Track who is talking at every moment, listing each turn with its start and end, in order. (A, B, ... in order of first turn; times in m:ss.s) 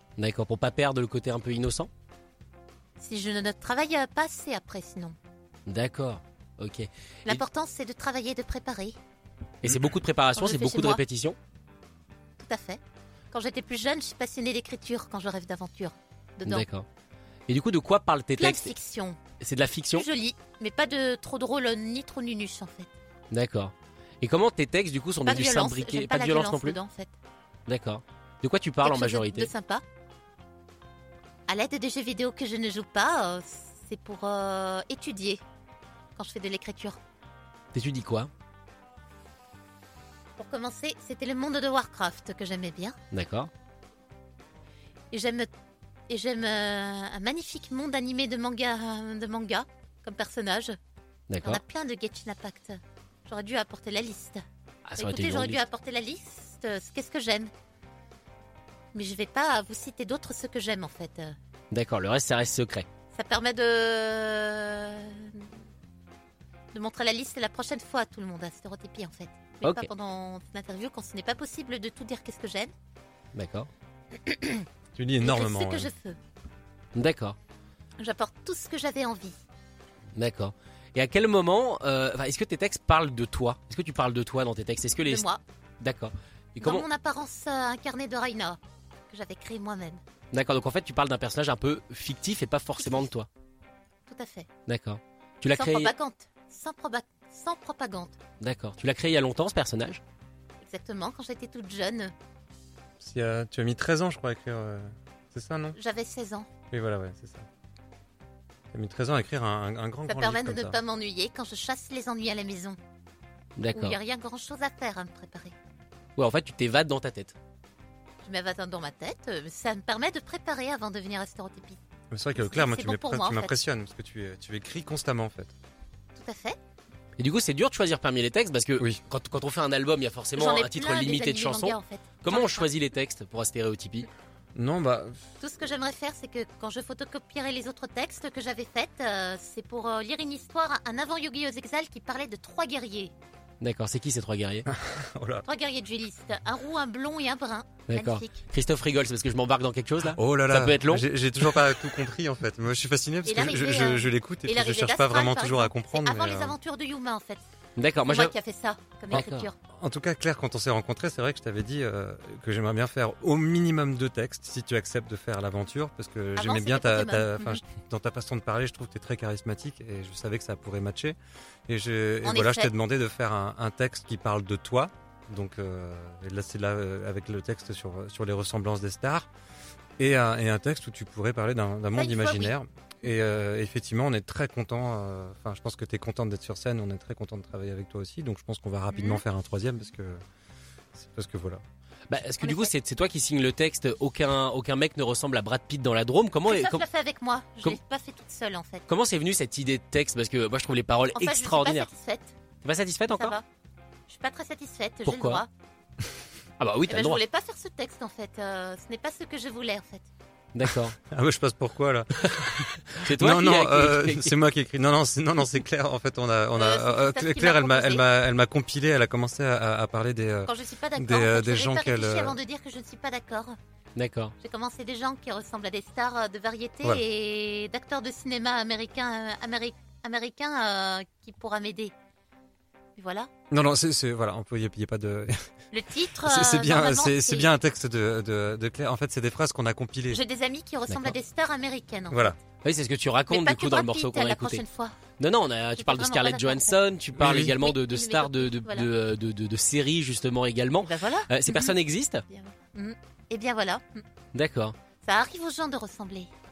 0:00.2-0:01.9 A
0:03.0-0:05.2 B
0:05.7-0:07.4 A
0:07.2-0:09.0 B
0:09.6-0:11.4 A
0:10.3-0:11.0 B
0:12.4-0:12.8 B
0:13.3-0:16.6 B
0:16.4-0:16.8 A
0:17.5-0:18.7 A
0:18.4-0:19.2 B
0:19.4-0:20.0 A
0:19.9-0:22.9 B
0:23.3-0:26.8 A
0:25.2-0:27.1 B
0:27.7-0:29.5 A
0:28.8-0:29.8 B
0:31.5-0:35.4 B
0:36.2-0:37.0 B
0:37.7-0:38.3 A
0:40.4-0:43.0 B
0:43.1-0:43.5 A
0:45.1-0:45.5 B
0:46.1-0:50.8 B
0:51.3-0:51.6 A
0:51.4-0:54.4 B
0:54.8-0:55.6 A
0:55.0-0:57.5 B
0:58.9-1:01.4 B
1:01.7-1:02.9 A
1:03.1-1:05.5 B
1:06.7-1:12.7 B
1:09.6-1:09.9 A
1:13.3-1:13.7 A
1:14.2-1:14.6 B
1:14.9-1:15.9 C
1:15.2-1:16.2 B
1:16.9-1:17.4 A
1:18.0-1:19.4 B
1:20.1-1:25.2 A
1:25.0-1:25.4 B
1:25.8-1:26.8 A
1:26.6-1:28.6 B
1:29.1-1:30.0 B
1:30.3-1:33.3 A
1:32.8-1:33.1 B
1:34.1-1:34.5 B
1:34.7-1:35.9 A
1:35.5-1:38.2 B
1:38.4-1:40.0 A
1:40.6-1:42.1 B
1:43.0-1:45.8 C
1:45.8-1:46.5 B
1:46.7-1:47.5 C
1:48.7-1:50.8 C
1:50.1-1:52.8 B
1:53.6-1:54.0 A
1:53.7-1:55.5 B
1:56.2-1:57.3 A
1:58.2-2:01.8 B
2:02.1-2:05.5 C
2:02.4-2:03.6 B
2:06.1-2:06.6 B
2:07.2-2:14.1 A
2:10.4-2:12.7 B
2:14.5-2:15.2 C
2:15.4-2:23.1 B
2:23.6-2:24.7 A
2:24.7-2:25.4 C
2:25.4-2:28.4 B
2:27.9-2:31.5 A
2:30.0-2:36.6 C
2:33.2-2:37.4 B
2:37.8-2:38.3 A
2:38.0-2:39.5 B
2:39.1-2:39.5 A
2:39.1-2:51.2 C
2:46.4-2:47.6 B
2:51.7-2:59.3 C
2:52.2-2:52.7 B
3:00.0-3:10.2 C
3:01.9-3:02.5 B
3:08.9-3:09.2 B
3:10.9-3:11.6 C
3:12.1-3:16.8 A
3:12.4-3:12.7 B
3:16.5-3:18.8 B
3:18.9-3:21.9 A
3:21.1-3:22.3 B
3:22.6-3:23.4 A
3:23.1-3:23.4 B
3:24.1-3:25.5 B
3:25.0-3:25.4 A
3:26.6-3:27.2 A
3:26.9-3:30.1 B
3:30.5-3:31.0 A
3:31.0-3:42.4 C
3:32.2-3:34.3 A
3:36.6-3:38.0 B
3:40.4-3:43.6 B
3:44.0-3:44.3 A
3:44.4-3:51.9 B
3:53.0-3:53.3 B
3:53.5-3:55.4 C
3:55.7-3:57.5 B
3:56.2-4:00.2 C
4:00.1-4:02.4 B
4:00.9-4:01.1 A
4:02.1-4:02.4 C
4:02.6-4:04.6 A
4:03.3-4:05.0 B
4:05.2-4:12.2 A
4:05.8-4:06.8 B
4:07.2-4:07.5 C
4:07.3-4:08.9 B
4:10.8-4:11.7 B
4:12.3-4:14.0 B
4:14.3-4:14.7 A
4:15.0-4:16.3 B